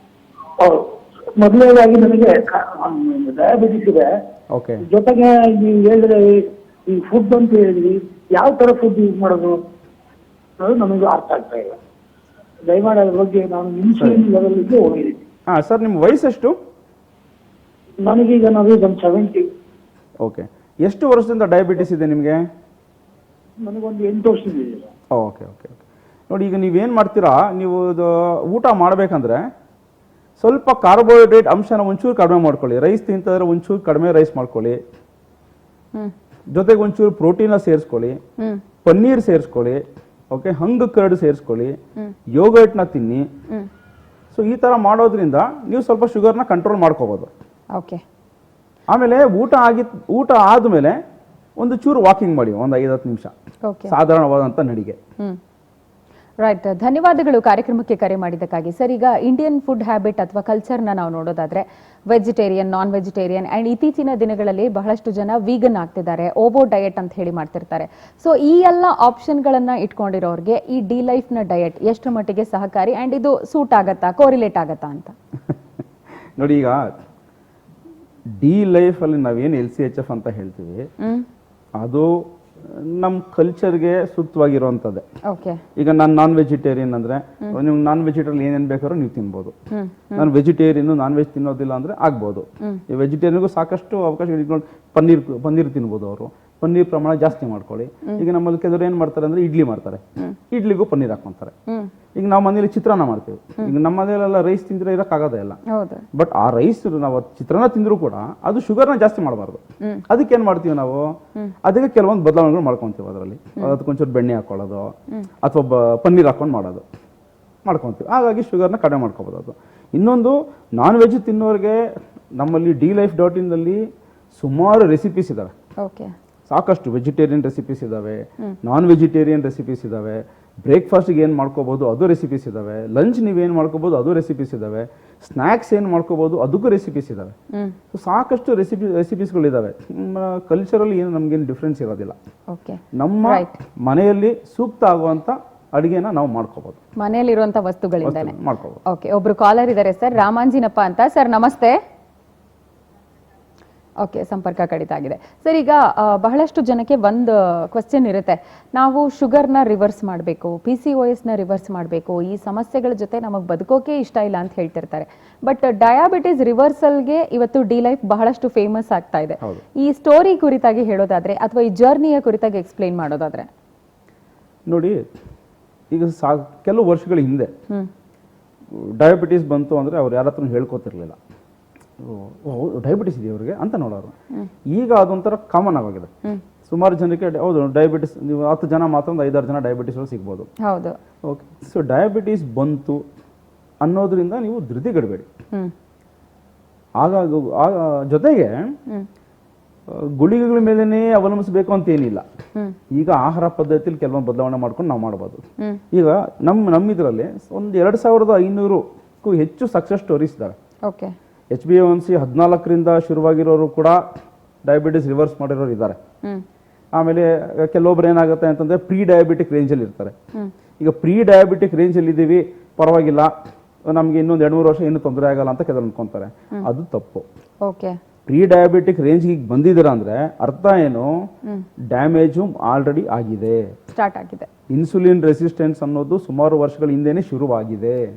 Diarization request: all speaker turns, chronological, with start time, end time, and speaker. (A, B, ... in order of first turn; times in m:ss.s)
0:00.6-0:04.1 A
0:04.5-0:04.8 B
0:04.8-0:09.6 A
0:10.6-0:11.8 A
0:12.6-0:15.2 A
0:14.0-0:14.2 B
0:15.5-0:16.6 B
0:18.0-0:19.4 A
0:20.2-0:22.4 B
0:23.6-0:24.9 A
0:25.1-0:29.5 B
0:30.4-0:34.8 B
0:36.5-0:38.2 B
0:38.8-0:41.8 B
0:42.3-0:43.3 B
0:44.3-0:47.3 B
0:47.7-0:48.0 C
0:48.9-0:51.0 B
0:51.6-0:53.3 B
0:53.6-0:53.9 C
0:53.9-0:55.0 B
0:56.4-1:15.1 C
1:16.4-1:16.9 B
1:18.4-1:20.9 B
1:21.0-1:21.2 C
1:21.8-1:25.0 B
1:25.3-1:25.6 C
1:25.8-1:29.5 B
1:29.7-1:30.3 C
1:30.2-1:41.5 B
1:42.1-1:45.6 B
1:45.7-1:46.0 C
1:46.1-1:51.1 B
1:51.6-1:56.8 B
1:57.6-2:01.8 B
2:02.4-2:03.8 B
2:04.3-2:05.5 B
2:05.8-2:06.1 C
2:06.5-2:17.3 B
2:17.9-2:22.2 B
2:22.5-2:23.5 C
2:22.9-2:26.8 B
2:27.0-2:31.8 C
2:28.0-2:28.8 B
2:34.0-2:53.5 C
2:54.7-2:55.0 B
2:55.9-2:57.5 B
2:58.7-3:01.2 B
3:02.0-3:04.1 B
3:04.7-3:06.1 B
3:06.6-3:10.5 B
3:10.6-3:11.0 C
3:11.2-3:13.0 B
3:13.8-3:15.3 B
3:17.0-3:18.7 B
3:19.9-3:22.2 B
3:22.9-3:30.6 B
3:30.9-3:31.1 C
3:31.5-3:34.0 B
3:34.6-3:36.0 B
3:36.9-3:40.1 B
3:40.8-3:43.3 B
3:43.9-3:47.2 B
3:47.6-3:48.0 C
3:48.3-3:51.1 B
3:51.9-3:53.6 B
3:53.9-3:54.5 C
3:54.7-3:58.0 B